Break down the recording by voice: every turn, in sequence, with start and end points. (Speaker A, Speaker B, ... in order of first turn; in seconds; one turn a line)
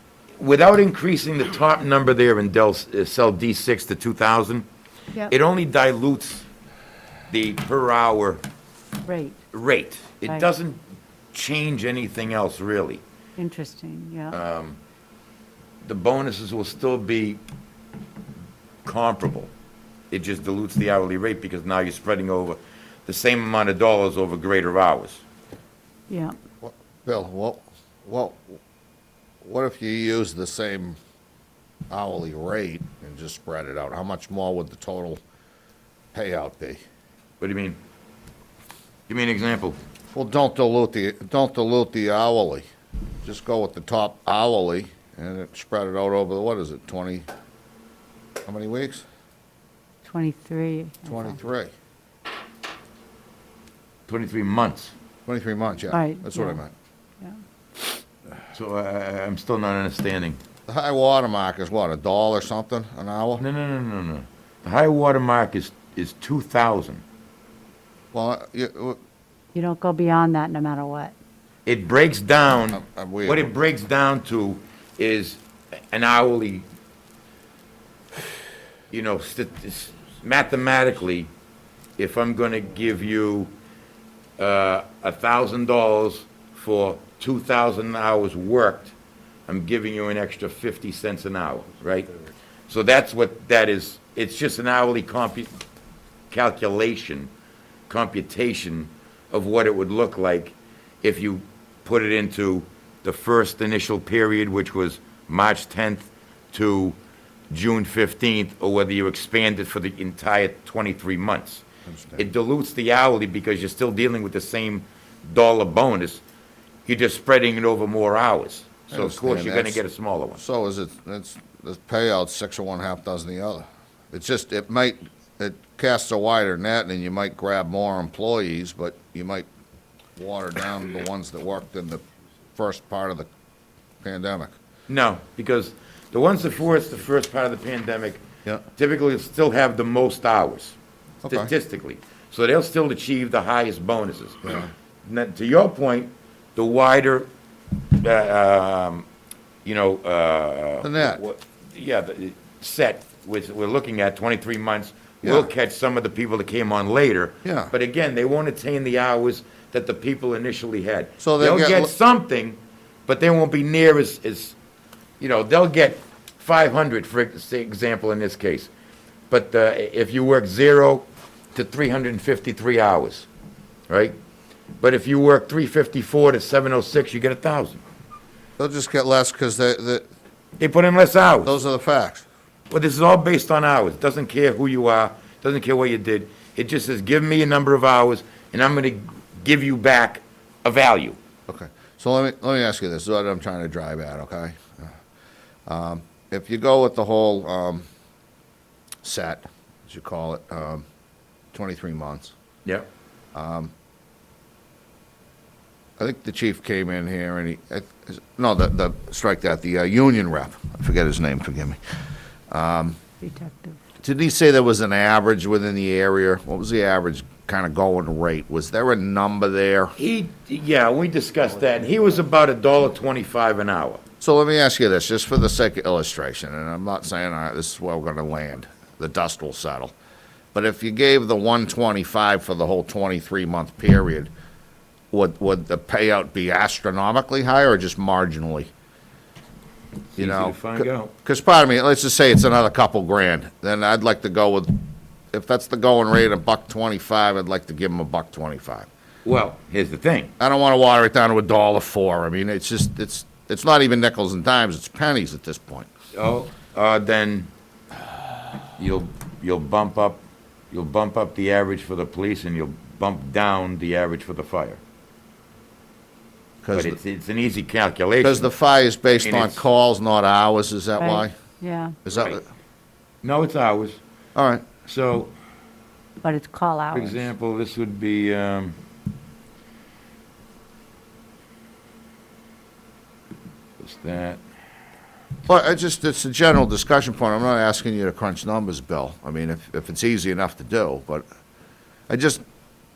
Speaker A: 0.4-4.7
Speaker A: 5.3-6.5
Speaker A: 7.3-8.4
Speaker B: 9.1-9.4
Speaker A: 9.5-10.8
Speaker A: 11.3-13.0
Speaker B: 13.4-14.4
Speaker A: 14.3-14.8
Speaker A: 15.8-17.4
Speaker A: 18.8-19.5
Speaker A: 20.1-25.2
Speaker B: 26.1-26.3
Speaker C: 26.6-28.6
Speaker C: 29.4-31.0
Speaker C: 31.9-35.2
Speaker C: 36.1-36.8
Speaker A: 37.4-37.8
Speaker A: 39.1-39.8
Speaker C: 40.1-42.6
Speaker C: 43.2-47.2
Speaker C: 48.5-49.0
Speaker B: 50.0-51.3
Speaker C: 51.0-51.7
Speaker A: 54.1-54.9
Speaker C: 55.2-56.7
Speaker B: 55.9-56.6
Speaker A: 58.5-60.4
Speaker C: 60.7-63.4
Speaker A: 63.4-67.0
Speaker C: 68.1-69.0
Speaker B: 69.5-71.1
Speaker A: 71.7-75.4
Speaker C: 72.7-73.5
Speaker A: 75.9-76.7
Speaker A: 78.9-81.3
Speaker A: 82.0-83.5
Speaker A: 84.4-88.9
Speaker A: 89.5-92.1
Speaker A: 92.7-95.5
Speaker A: 96.3-97.3
Speaker A: 97.9-107.0
Speaker A: 107.5-111.6
Speaker C: 111.9-112.2
Speaker A: 112.2-116.2
Speaker A: 116.8-120.4
Speaker C: 118.9-119.8
Speaker C: 120.4-129.5
Speaker C: 130.2-132.0
Speaker C: 132.6-133.3
Speaker C: 134.0-134.5
Speaker A: 134.9-138.2
Speaker A: 138.7-147.3
Speaker C: 141.2-141.5
Speaker A: 147.9-149.1
Speaker A: 149.6-164.6
Speaker C: 150.8-151.2
Speaker C: 155.2-155.5
Speaker C: 157.4-157.7
Speaker C: 161.2-161.9
Speaker A: 165.2-168.7
Speaker A: 169.3-173.3
Speaker A: 173.9-174.2
Speaker A: 174.8-177.8
Speaker C: 178.6-180.1
Speaker A: 180.6-181.5
Speaker C: 181.4-182.3
Speaker A: 182.7-191.2
Speaker C: 191.5-194.9
Speaker C: 195.7-197.8
Speaker C: 199.0-200.8
Speaker C: 201.5-202.3
Speaker C: 203.3-203.7
Speaker C: 206.0-211.8
Speaker C: 212.5-213.0
Speaker B: 213.2-213.8
Speaker C: 214.0-219.9
Speaker A: 220.0-224.0
Speaker C: 224.2-229.9
Speaker C: 230.5-234.3
Speaker C: 235.1-238.7
Speaker A: 240.2-241.1
Speaker C: 240.2-244.8
Speaker C: 245.3-248.9
Speaker A: 249.2-250.3
Speaker C: 250.4-255.9
Speaker A: 256.1-257.5
Speaker A: 258.7-264.8
Speaker C: 266.6-267.0
Speaker A: 266.7-268.4
Speaker C: 268.2-271.3
Speaker A: 269.2-269.6
Speaker B: 271.0-271.9
Speaker C: 272.0-272.4
Speaker A: 272.1-272.4
Speaker A: 273.2-274.0
Speaker C: 274.4-274.6
Speaker A: 274.8-275.3
Speaker B: 276.2-277.3
Speaker A: 276.9-278.8
Speaker A: 283.8-284.4
Speaker C: 285.5-291.2
Speaker C: 292.1-292.4